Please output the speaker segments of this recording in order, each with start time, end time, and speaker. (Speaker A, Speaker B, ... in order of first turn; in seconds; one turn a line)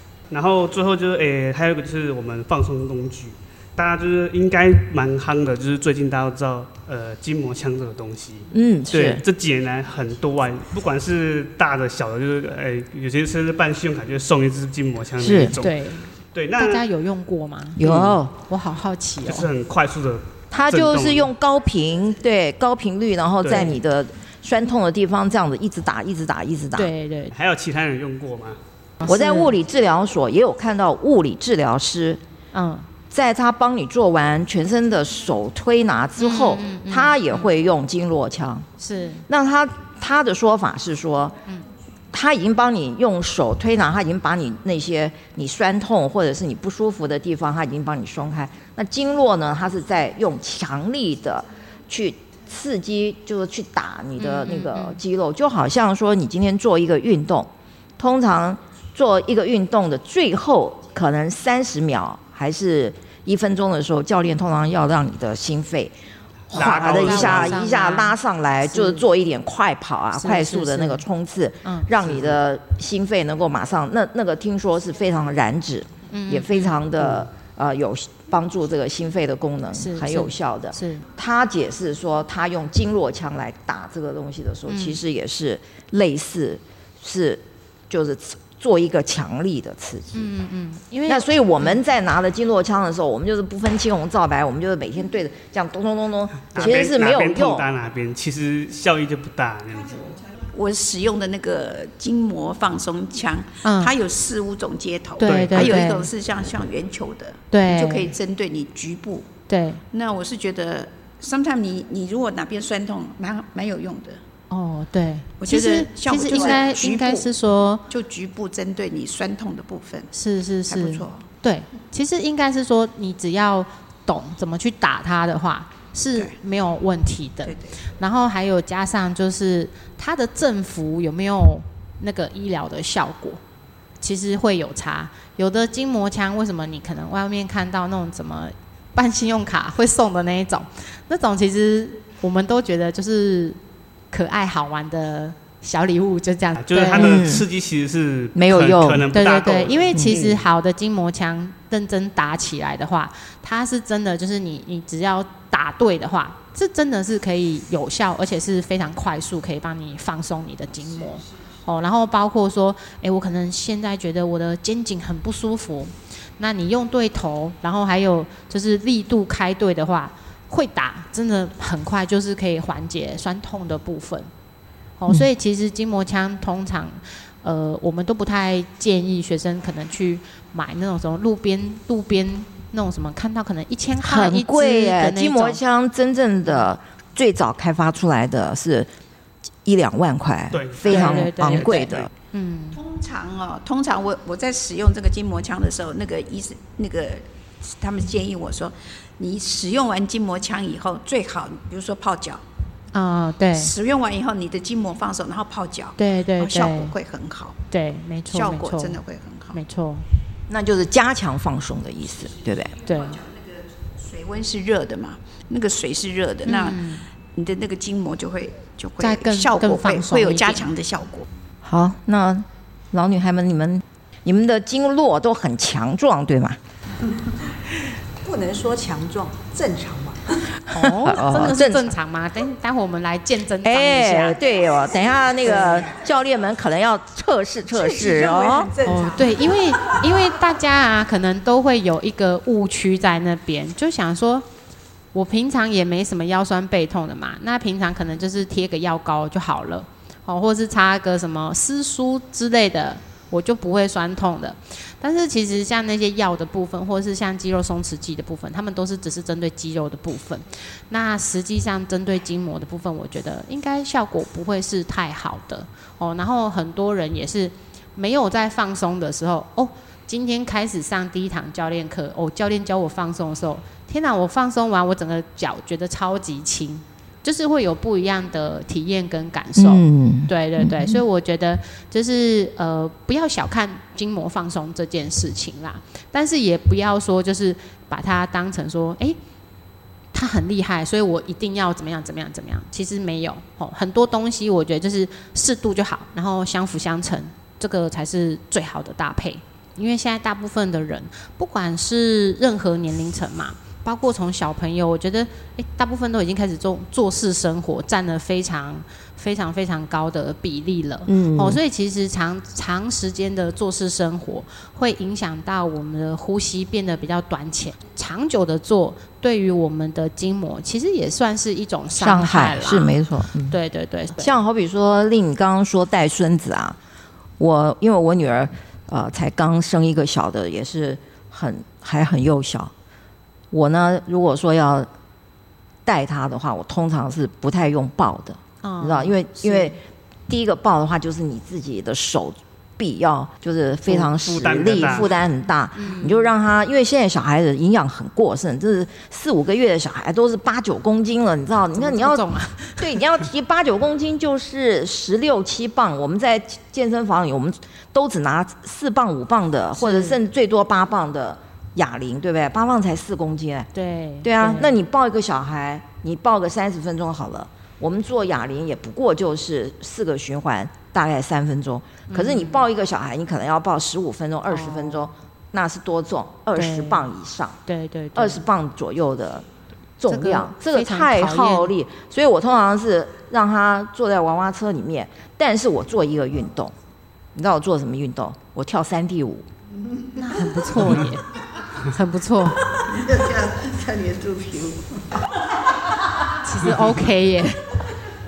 Speaker A: 0.3-15.8
Speaker B: 8.5-9.2
Speaker B: 15.2-15.6
Speaker C: 15.6-19.5
Speaker A: 16.3-16.8
Speaker B: 17.8-18.3
Speaker A: 17.8-18.2
Speaker A: 19.2-21.3
Speaker B: 20.5-26.9
Speaker A: 23.4-23.7
Speaker C: 23.5-23.7
Speaker C: 26.7-27.3
Speaker A: 27.3-28.6
Speaker C: 29.0-29.5
Speaker B: 29.0-32.2
Speaker C: 32.5-32.9
Speaker B: 33.1-38.7
Speaker C: 36.2-37.5
Speaker C: 38.8-39.2
Speaker B: 39.3-41.4
Speaker B: 42.1-65.9
Speaker C: 54.2-55.0
Speaker B: 66.5-90.3
Speaker A: 66.5-67.6
Speaker C: 66.5-68.2
Speaker C: 68.7-69.0
Speaker C: 70.1-71.0
Speaker C: 71.6-71.9
Speaker A: 72.0-72.4
Speaker C: 76.1-76.8
Speaker A: 77.0-77.3
Speaker C: 79.7-81.0
Speaker C: 84.7-85.0
Speaker C: 90.1-91.8
Speaker B: 91.0-97.7
Speaker A: 96.5-100.2
Speaker D: 100.5-109.3
Speaker C: 103.6-103.9
Speaker C: 105.2-106.1
Speaker A: 105.2-105.8
Speaker C: 107.5-108.1
Speaker C: 109.5-109.8
Speaker D: 109.9-114.2
Speaker C: 114.5-117.9
Speaker D: 115.4-117.3
Speaker D: 117.9-120.1
Speaker C: 120.1-133.4
Speaker D: 120.7-121.2
Speaker D: 127.4-127.8
Speaker C: 134.0-143.6
Speaker C: 144.1-147.2
Speaker A: 146.6-150.5
Speaker B: 146.9-147.5
Speaker B: 148.3-149.1
Speaker C: 149.1-174.3
Speaker C: 175.0-185.6
Speaker B: 184.0-188.9
Speaker B: 189.6-192.1
Speaker A: 190.5-192.1
Speaker C: 190.9-192.8
Speaker D: 192.7-202.4
Speaker C: 202.9-203.7
Speaker D: 203.5-207.6
Speaker C: 206.0-206.9
Speaker C: 207.7-209.0
Speaker D: 208.3-209.6
Speaker C: 209.5-210.0
Speaker B: 210.5-212.8
Speaker D: 212.5-221.2
Speaker C: 212.8-213.2
Speaker C: 216.4-217.1
Speaker C: 219.0-220.7
Speaker B: 221.6-226.6
Speaker E: 228.2-230.4
Speaker B: 230.7-231.9
Speaker C: 230.7-234.4
Speaker B: 233.6-238.7
Speaker E: 235.6-235.9
Speaker E: 237.7-240.0
Speaker C: 238.8-244.4
Speaker C: 245.1-289.2
Speaker B: 279.6-281.0
Speaker C: 290.1-324.3
Speaker B: 311.1-311.6
Speaker B: 321.9-323.6
Speaker B: 324.2-326.8
Speaker B: 327.4-332.7
Speaker B: 333.5-334.9
Speaker B: 335.8-339.8
Speaker C: 338.6-339.8
Speaker B: 340.3-352.2
Speaker A: 343.9-345.1
Speaker C: 345.7-346.3
Speaker C: 351.7-353.0
Speaker B: 352.8-363.7
Speaker C: 359.8-360.2
Speaker C: 363.7-364.7
Speaker B: 364.2-377.6
Speaker C: 372.1-372.6
Speaker C: 374.5-375.1
Speaker C: 376.5-377.0
Speaker C: 377.6-378.4
Speaker B: 378.1-379.4
Speaker B: 380.0-386.7
Speaker C: 380.1-381.7
Speaker B: 387.3-389.4
Speaker C: 390.1-391.3
Speaker C: 391.8-392.7
Speaker F: 392.7-395.0
Speaker C: 396.4-397.8